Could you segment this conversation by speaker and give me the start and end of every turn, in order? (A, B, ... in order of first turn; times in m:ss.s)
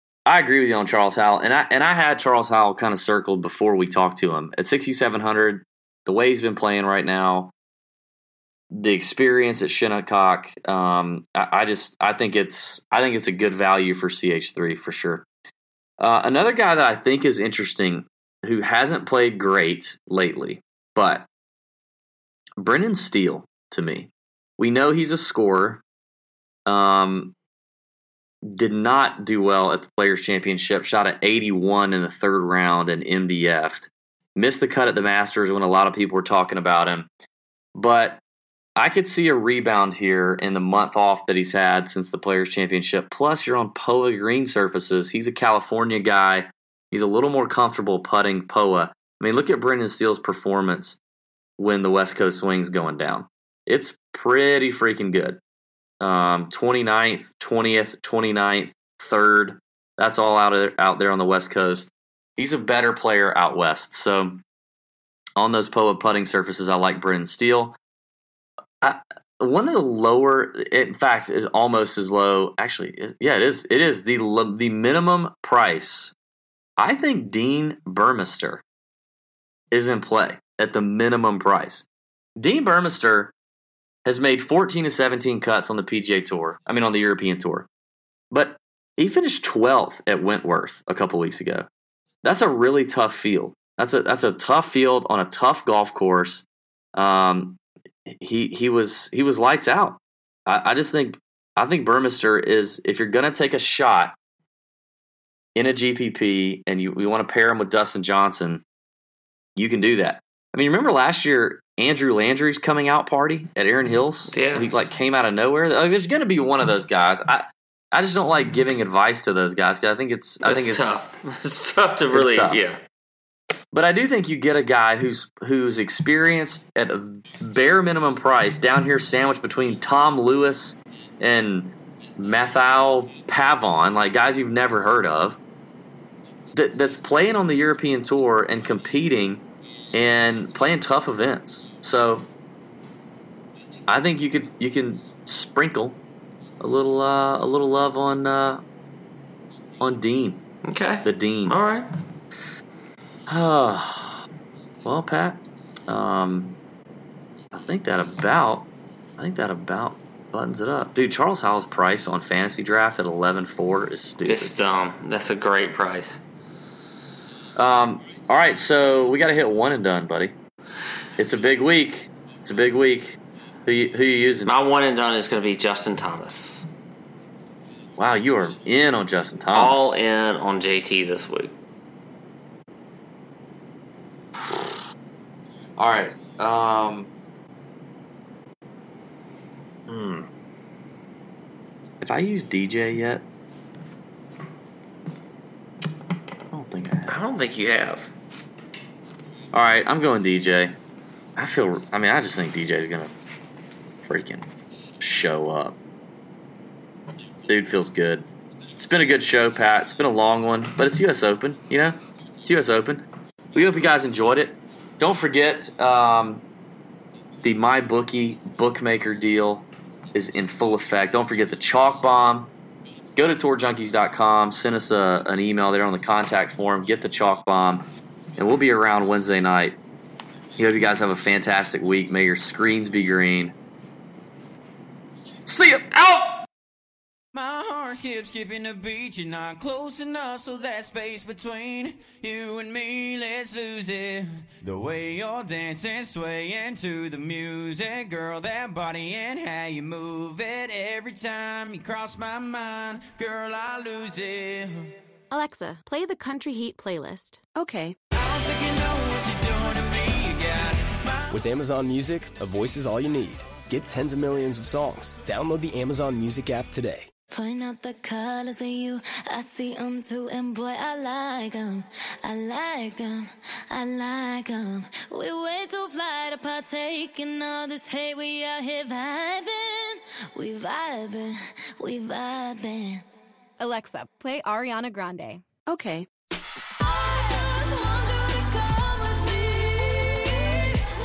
0:00.2-0:07.5 A
0:08.7-0:15.2 A
0:16.0-0:21.3 A
0:22.6-0:25.8 A
0:26.6-0:27.3 A
0:28.4-0:37.1 A
0:37.7-0:38.2 A
0:38.8-0:51.0 A
0:51.6-0:55.4 A
0:56.0-1:04.4 A
1:05.4-1:07.8 A
1:08.8-1:16.1 A
1:16.8-1:18.6 A
1:19.7-1:21.8 A
1:22.4-1:23.3 A
1:24.0-1:27.7 A
1:28.3-1:31.7 A
1:32.2-1:44.1 A
1:45.5-1:48.6 A
1:49.6-2:01.0 A
1:54.3-1:54.7 B
2:00.4-2:02.8 B
2:02.1-2:02.6 A
2:03.7-2:15.4 A
2:16.5-2:19.4 A
2:19.9-2:22.3 A
2:23.9-2:26.0 A
2:26.6-2:28.6 A
2:29.8-2:30.4 A
2:30.6-2:31.9 B
2:31.0-2:31.6 A
2:33.3-2:34.2 A
2:34.8-2:36.6 A
2:37.5-2:44.5 A
2:44.2-2:46.2 B
2:47.6-2:50.3 A
2:51.2-2:54.5 A
2:54.4-2:56.6 B
2:58.0-3:00.0 A
2:59.5-3:01.5 B
3:04.4-3:04.8 A
3:05.8-3:07.1 A
3:09.9-3:10.3 A
3:12.0-3:13.2 A
3:16.5-3:17.1 A
3:17.1-3:18.1 B
3:19.5-3:20.7 A
3:21.4-3:23.1 A
3:24.0-3:24.5 A
3:25.0-3:25.8 A
3:27.5-3:28.2 A
3:28.8-3:36.4 A
3:37.4-3:42.5 A
3:43.2-3:49.8 A
3:50.6-3:53.5 A
3:55.4-3:56.3 A
3:57.3-4:14.9 C
4:15.3-4:18.0 D
4:18.1-4:21.4 C
4:21.3-4:27.1 E
4:27.3-4:43.0 F
4:43.6-4:46.1 D
4:46.8-4:50.6 F